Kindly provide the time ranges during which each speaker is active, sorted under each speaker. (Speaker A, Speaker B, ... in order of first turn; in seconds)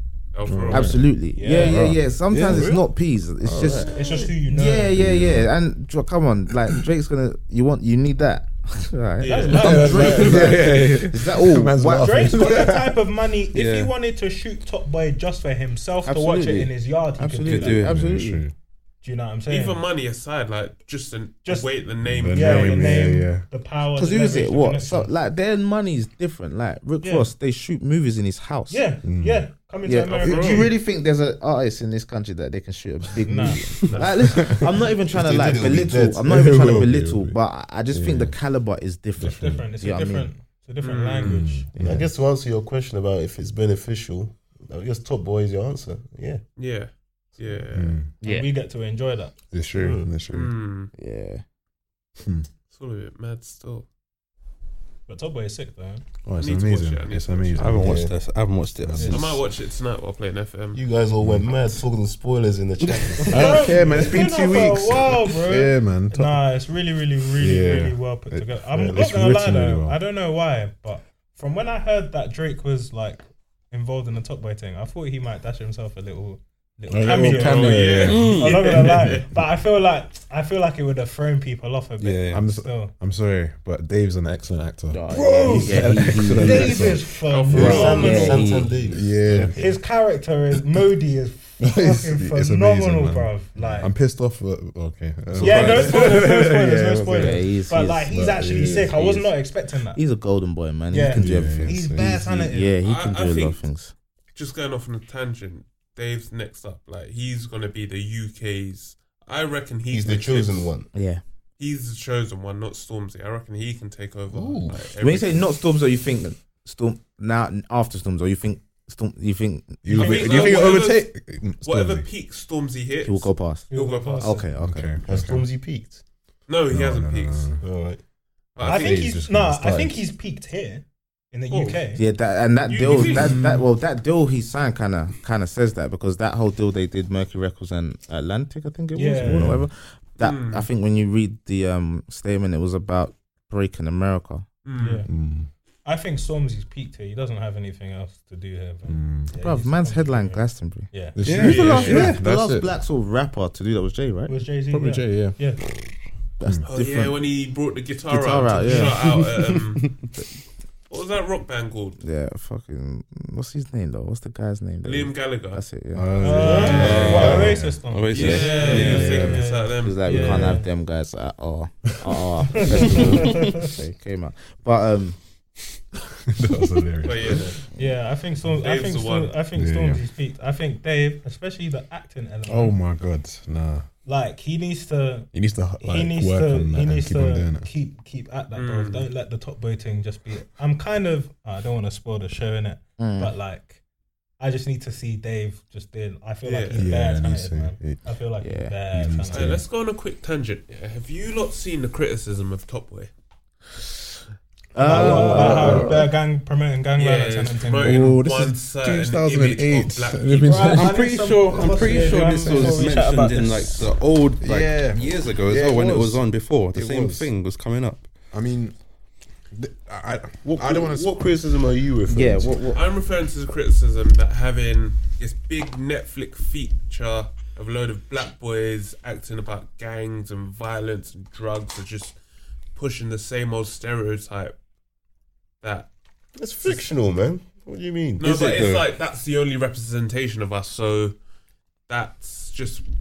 Speaker A: 0.3-1.0, 9.2-9.8, 19.5-23.0, 30.1-30.7, 33.9-34.2, 40.8-41.4, 46.6-48.0, 50.3-50.9, 52.7-53.9, 56.4-57.8, 59.1-60.8, 77.0-79.2, 87.2-88.1, 102.8-103.6, 104.3-110.8, 111.6-115.5, 119.9-124.3, 126.5-127.5, 128.5-129.1, 132.7-133.4, 140.2-140.7, 144.6-145.0, 151.4-152.0, 156.7-159.9, 160.9-162.0, 164.8-165.6, 166.4-167.4, 168.1-170.6, 177.0-177.6, 178.6-179.3, 188.5-189.1, 196.4-196.9, 199.3-203.1, 207.0-210.8, 222.7-232.2, 232.7-234.5, 235.6-235.9, 238.2-241.2, 241.9-242.9
Speaker B: 0.5-2.6, 3.4-3.9, 5.0-5.5, 9.5-12.9, 17.8-18.5, 22.0-23.4, 29.0-29.4, 36.2-37.4, 37.9-38.4, 39.2-39.6, 41.2-42.1, 47.7-48.1, 49.5-50.5, 52.2-52.5, 56.2-58.1, 58.8-59.2, 61.2-61.5, 63.2-66.4, 67.4-70.0, 76.9-79.2, 82.3-88.2, 88.9-89.6, 91.6-97.5, 98.1-99.0, 101.1-102.1, 119.8-122.0, 124.6-125.5, 126.7-127.6, 128.6-130.0, 139.2-139.7, 145.1-145.5, 148.9-149.3, 151.1-152.7, 154.7-155.4, 165.9-169.4, 172.5-173.3, 176.3-177.5, 179.5-180.0, 182.5-183.8, 185.3-187.7, 196.8-198.0, 198.9-199.6, 204.8-206.1, 207.8-213.0, 214.4-217.3, 218.3-218.7, 219.5-221.2
Speaker C: 0.7-3.9, 4.5-12.6, 16.0-18.4, 23.9-28.8, 29.8-40.3, 48.2-48.5, 51.0-51.4, 84.9-87.0, 87.5-88.9, 97.1-98.1, 98.7-99.3, 99.9-103.9, 110.9-111.2, 115.0-120.7, 123.0-125.0, 131.9-144.5, 149.3-154.3, 156.4-157.2, 158.1-159.0, 162.0-166.8, 169.7-175.2, 193.0-193.3, 198.4-198.7, 204.8-205.9, 222.1-222.8
Speaker D: 1.3-1.9, 3.9-5.0, 9.2-10.7, 12.0-17.9, 19.0-19.8, 21.4-21.7, 22.3-25.1, 27.0-27.3, 28.7-30.7, 33.2-34.1, 39.3-41.7, 48.2-49.3, 55.1-56.0, 59.0-59.2, 63.2-82.9, 85.1-88.5, 89.5-93.9, 95.4-100.0, 100.9-102.7, 123.7-124.5, 128.6-132.0, 132.8-133.4, 138.9-139.6, 144.8-145.1, 145.8-151.6, 154.3-155.6, 158.6-159.0, 166.2-170.7, 172.5-173.7, 177.7-182.8, 184.0-193.8, 194.4-199.6, 204.7-208.1, 210.4-213.9
Speaker E: 2.4-2.9, 3.7-4.3, 35.1-36.9, 41.8-46.4, 49.7-50.1, 57.8-58.2, 60.7-63.9, 68.7-69.1, 87.5-89.8, 109.9-110.9, 114.3-114.9, 125.0-126.0, 127.6-128.0, 131.5-131.8, 220.5-222.7, 236.3-238.7
Speaker F: 13.5-13.9, 17.4-18.3, 57.5-59.4, 78.0-78.8, 82.0-82.5, 95.4-95.8, 151.2-152.2, 166.7-169.4, 210.7-218.1, 238.2-238.8